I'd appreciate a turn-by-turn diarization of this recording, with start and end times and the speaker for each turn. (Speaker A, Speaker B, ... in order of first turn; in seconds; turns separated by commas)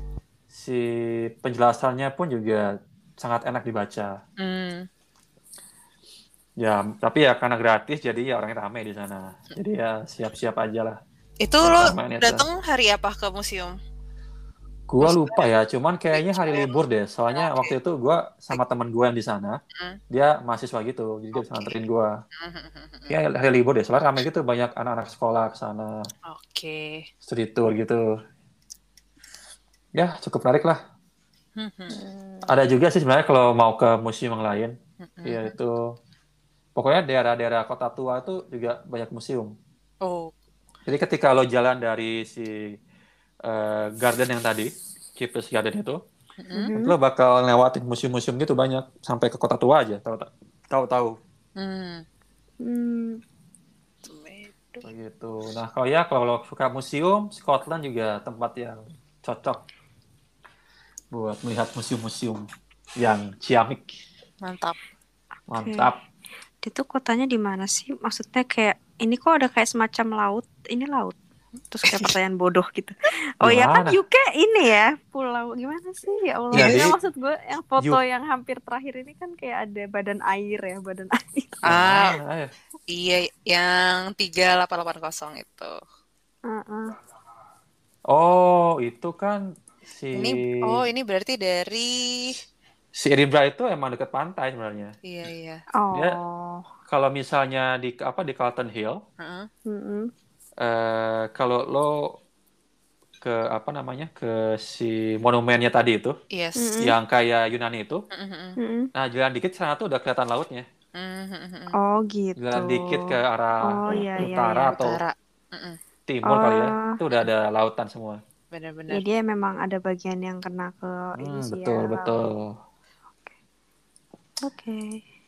Speaker A: 0.5-2.7, Speaker A: 3.2-4.1, Speaker B: 4.4-4.9, Speaker A: 6.6-11.0, Speaker B: 11.4-13.8, Speaker A: 11.6-12.4, Speaker A: 14.9-19.6, Speaker B: 15.0-15.5, Speaker B: 16.1-16.8, Speaker B: 17.3-17.7, Speaker B: 19.7-20.0, Speaker A: 20.1-22.1, Speaker B: 21.3-21.8, Speaker B: 22.4-23.2, Speaker A: 23.1-26.0, Speaker B: 26.3-27.1, Speaker A: 27.2-28.1, Speaker A: 29.9-30.8, Speaker B: 31.6-32.0, Speaker C: 31.9-32.5, Speaker A: 32.5-34.7, Speaker B: 35.0-35.5, Speaker A: 35.2-35.8, Speaker A: 36.8-39.5, Speaker B: 40.0-40.3, Speaker A: 40.9-42.6, Speaker A: 43.5-46.0, Speaker B: 46.4-46.7, Speaker C: 46.5-46.9, Speaker A: 46.7-51.1, Speaker B: 51.6-52.0, Speaker C: 52.6-53.2, Speaker B: 54.0-54.9, Speaker A: 54.8-59.6, Speaker A: 61.1-62.5, Speaker A: 63.0-63.9, Speaker B: 64.4-64.8, Speaker A: 65.5-66.0, Speaker C: 65.5-65.9, Speaker C: 66.6-71.2, Speaker C: 71.7-81.6, Speaker A: 73.4-74.0, Speaker A: 76.5-77.0, Speaker B: 76.5-76.8, Speaker A: 81.7-82.5, Speaker B: 81.7-82.2, Speaker B: 82.9-85.7, Speaker C: 86.5-86.9, Speaker A: 88.1-90.8, Speaker B: 90.1-92.4, Speaker A: 92.9-94.9, Speaker B: 95.0-95.6, Speaker C: 95.7-96.7, Speaker A: 96.9-99.0, Speaker B: 99.2-99.5, Speaker C: 99.7-100.1, Speaker A: 100.6-102.1, Speaker A: 103.2-106.1, Speaker B: 106.3-106.8, Speaker C: 106.6-106.9, Speaker A: 106.8-108.0, Speaker B: 108.1-108.6, Speaker C: 108.6-108.9, Speaker A: 108.9-110.7, Speaker B: 110.9-111.8, Speaker C: 111.8-114.8, Speaker A: 112.4-115.0, Speaker B: 114.2-115.8, Speaker A: 116.1-118.2, Speaker C: 116.2-117.0, Speaker B: 118.5-119.0, Speaker C: 118.9-122.1, Speaker A: 121.2-122.5, Speaker C: 124.4-125.0